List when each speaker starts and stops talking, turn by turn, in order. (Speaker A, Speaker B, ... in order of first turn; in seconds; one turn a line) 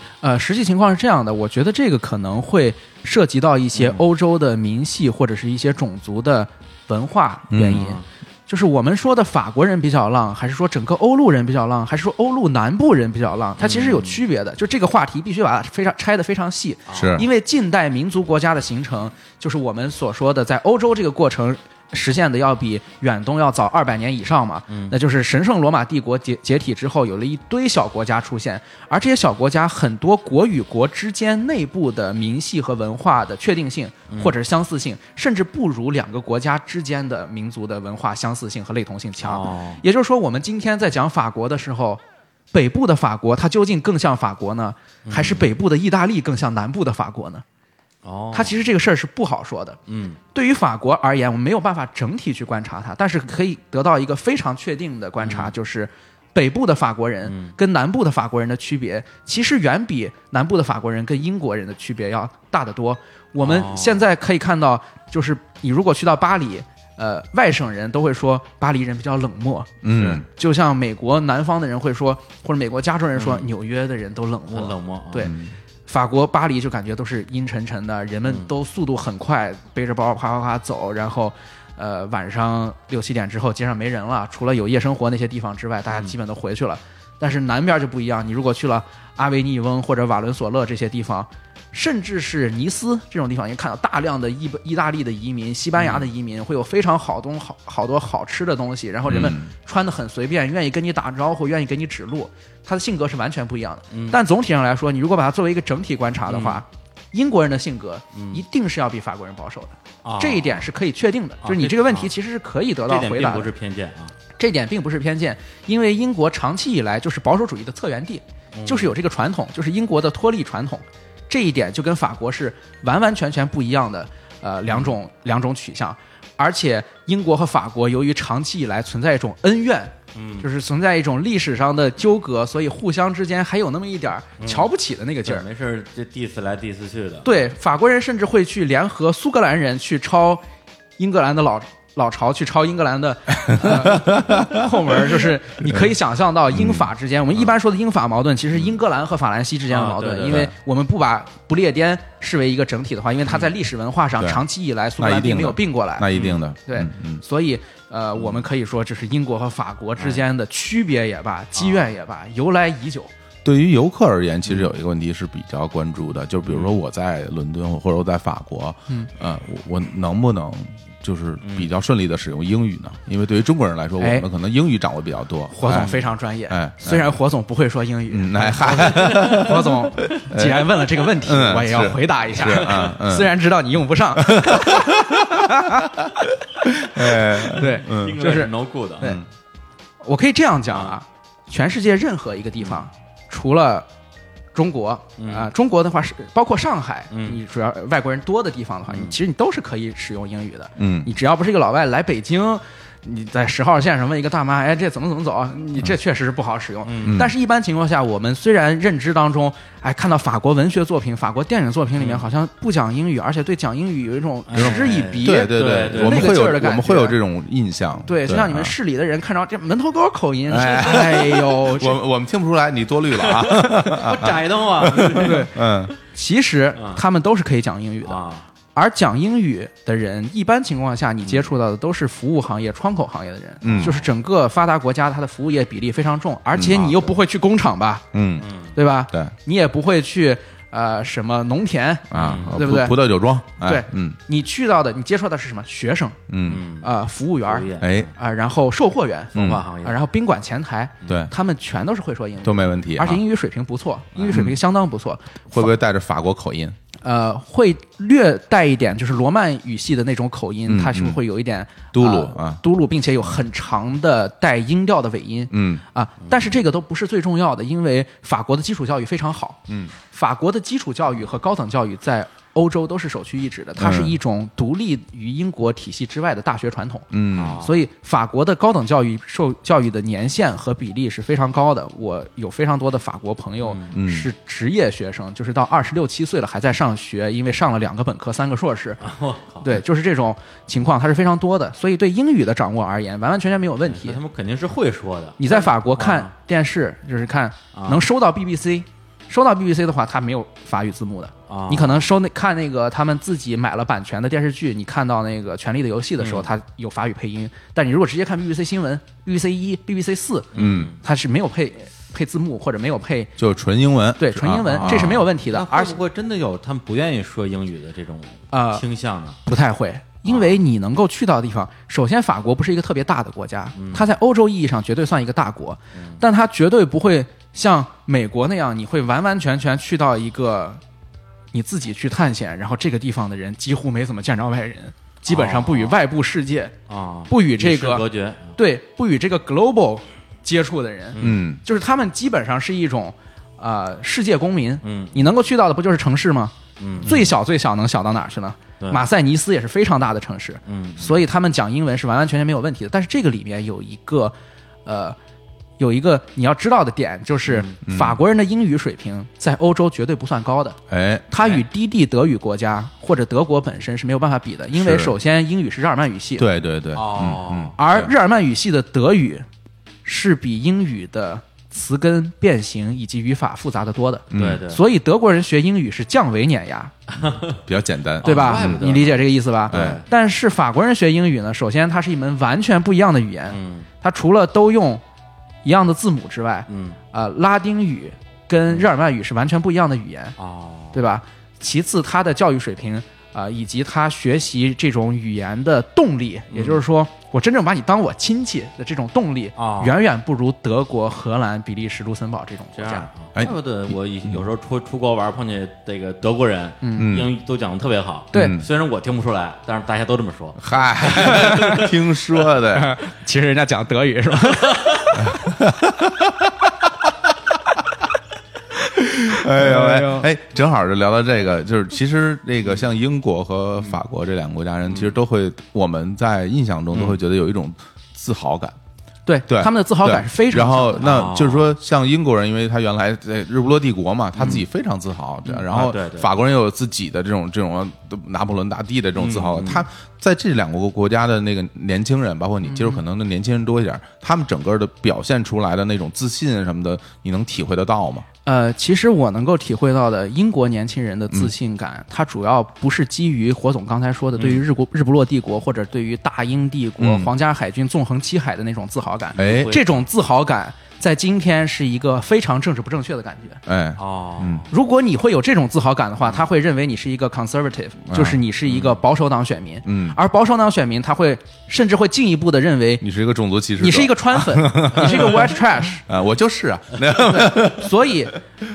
Speaker A: 0.2-42.0
Speaker B: 3.8-4.0
Speaker C: 7.5-7.8
Speaker B: 7.7-8.0
Speaker B: 13.6-14.2
Speaker C: 16.9-17.3
Speaker B: 24.7-24.9
Speaker B: 34.1-34.4
Speaker B: 39.2-39.8
Speaker A: 42.5-47.4
Speaker B: 45.1-45.5
Speaker B: 48.0-48.6
Speaker A: 48.3-49.8
Speaker B: 49.9-50.2
Speaker A: 50.3-69.7
Speaker B: 55.2-55.5
Speaker B: 57.2-57.5
Speaker B: 63.4-64.0
Speaker C: 69.8-70.2
Speaker A: 70.3-75.3
Speaker B: 73.2-73.5
Speaker B: 74.5-75.3
Speaker C: 75.2-75.5
Speaker A: 75.9-113.5
Speaker B: 95.8-96.1
Speaker C: 99.1-99.5
Speaker B: 103.9-104.2
Speaker B: 106.3-106.6
Speaker B: 108.2-108.4
Speaker B: 110.0-110.7
Speaker B: 111.4-112.1
Speaker B: 112.9-114.1
Speaker A: 114.4-135.5
Speaker B: 118.5-118.9
Speaker B: 124.7-125.0
Speaker B: 130.2-130.5
Speaker B: 134.4-134.7
Speaker B: 135.2-137.3
Speaker A: 137.2-140.4
Speaker A: 141.0-156.1
Speaker C: 143.5-145.9
Speaker C: 146.5-146.9
Speaker B: 149.7-150.5
Speaker C: 155.0-157.2
Speaker B: 156.1-156.4
Speaker A: 156.7-163.1
Speaker B: 161.6-161.9
Speaker C: 163.4-175.9
Speaker B: 166.5-166.7
Speaker B: 171.4-171.7
Speaker A: 174.0-174.2
Speaker A: 175.5-186.3
Speaker C: 176.5-177.1
Speaker C: 178.1-180.7
Speaker B: 178.7-179.6
Speaker C: 181.2-183.4
Speaker B: 182.6-182.9
Speaker C: 184.2-188.2
Speaker A: 186.9-189.2
Speaker B: 187.6-189.1
Speaker C: 189.0-189.3
Speaker A: 190.0-193.9
Speaker A: 194.5-217.2
Speaker B: 195.2-195.5
Speaker B: 197.1-197.4
Speaker B: 198.9-199.2
Speaker C: 200.8-201.1
Speaker B: 206.8-207.2
Speaker C: 207.0-207.3
Speaker B: 212.0-212.3
Speaker B: 214.5-216.4
Speaker C: 214.6-218.7
Speaker A: 218.1-222.0
Speaker C: 220.5-225.9
Speaker B: 223.2-225.5
Speaker A: 225.1-225.5
Speaker A: 226.1-228.2
Speaker B: 228.0-228.5
Speaker A: 228.7-238.0
Speaker C: 233.6-234.0
Speaker B: 233.7-234.1
Speaker C: 236.6-236.8
Speaker B: 236.8-237.2
Speaker C: 238.1-238.5
Speaker B: 238.4-238.8
Speaker A: 238.8-243.0
Speaker C: 242.1-244.2
Speaker B: 242.2-242.6
Speaker A: 243.6-246.2
Speaker C: 246.3-246.7
Speaker B: 246.5-246.9
Speaker A: 246.8-255.4
Speaker B: 247.4-248.1
Speaker C: 247.8-248.1
Speaker B: 249.3-250.0
Speaker C: 249.3-249.6
Speaker C: 251.1-251.3
Speaker C: 252.4-253.2
Speaker B: 254.2-254.5
Speaker C: 254.3-254.6
Speaker C: 255.5-256.8
Speaker A: 257.0-269.6
Speaker C: 260.7-261.2
Speaker C: 261.9-262.6
Speaker C: 265.5-265.8
Speaker C: 269.7-269.9
Speaker A: 270.1-277.1
Speaker C: 273.8-274.2
Speaker C: 277.1-277.6
Speaker B: 277.4-277.8
Speaker A: 277.6-289.0
Speaker B: 283.6-283.9
Speaker C: 283.9-284.3
Speaker B: 289.0-289.8
Speaker A: 289.6-294.2
Speaker B: 293.9-296.3
Speaker A: 295.4-313.3
Speaker B: 297.7-298.0
Speaker B: 301.5-302.1
Speaker B: 306.2-306.5
Speaker B: 310.5-311.0
Speaker C: 310.6-310.9
Speaker C: 313.4-315.2
Speaker A: 314.2-316.0
Speaker B: 314.7-319.4
Speaker A: 318.5-318.8
Speaker A: 319.5-330.8
Speaker B: 320.3-320.6
Speaker B: 323.8-324.1
Speaker B: 325.9-326.2
Speaker A: 331.5-336.7
Speaker B: 335.3-336.0
Speaker B: 336.9-338.5
Speaker A: 337.3-338.0
Speaker A: 338.6-354.4
Speaker B: 341.1-341.4
Speaker C: 341.2-341.6
Speaker B: 344.8-345.2
Speaker B: 346.8-347.1
Speaker B: 348.8-349.1
Speaker B: 350.7-351.2
Speaker A: 354.9-355.2
Speaker A: 355.8-360.8
Speaker B: 357.5-357.7
Speaker C: 357.9-358.2
Speaker C: 360.9-361.3
Speaker A: 361.3-366.5
Speaker C: 364.8-365.1
Speaker C: 366.4-368.1
Speaker B: 366.9-367.8
Speaker A: 367.8-369.5
Speaker A: 370.1-376.9
Speaker C: 374.3-374.6
Speaker B: 374.3-374.8
Speaker B: 377.1-377.6
Speaker C: 377.7-378.8
Speaker B: 378.2-380.1
Speaker A: 378.2-385.0
Speaker C: 379.7-380.0
Speaker B: 383.5-383.9
Speaker A: 385.6-390.3
Speaker B: 386.7-387.0
Speaker B: 390.4-391.0
Speaker A: 390.9-403.1
Speaker B: 396.5-396.8
Speaker B: 399.6-399.9
Speaker B: 402.8-411.8
Speaker A: 406.8-407.1
Speaker C: 407.0-407.3
Speaker A: 408.3-408.6
Speaker C: 408.3-408.7
Speaker C: 410.6-412.9
Speaker A: 411.0-411.9
Speaker A: 412.7-415.6
Speaker C: 415.2-417.1
Speaker C: 419.0-428.8
Speaker A: 419.1-420.3
Speaker B: 426.9-427.2
Speaker A: 429.3-431.1
Speaker C: 429.5-448.3
Speaker B: 431.0-431.7
Speaker B: 434.4-434.6
Speaker B: 435.7-436.3
Speaker B: 439.2-439.9
Speaker A: 442.6-443.0
Speaker A: 448.4-463.6
Speaker B: 454.4-454.6
Speaker C: 457.0-457.3
Speaker C: 459.4-459.7
Speaker B: 459.4-460.0
Speaker C: 463.7-464.6
Speaker B: 464.0-464.7
Speaker A: 464.7-473.1
Speaker C: 468.1-468.4
Speaker C: 469.9-470.2
Speaker C: 473.0-475.6
Speaker A: 473.8-476.0
Speaker C: 476.1-477.9
Speaker A: 477.2-478.4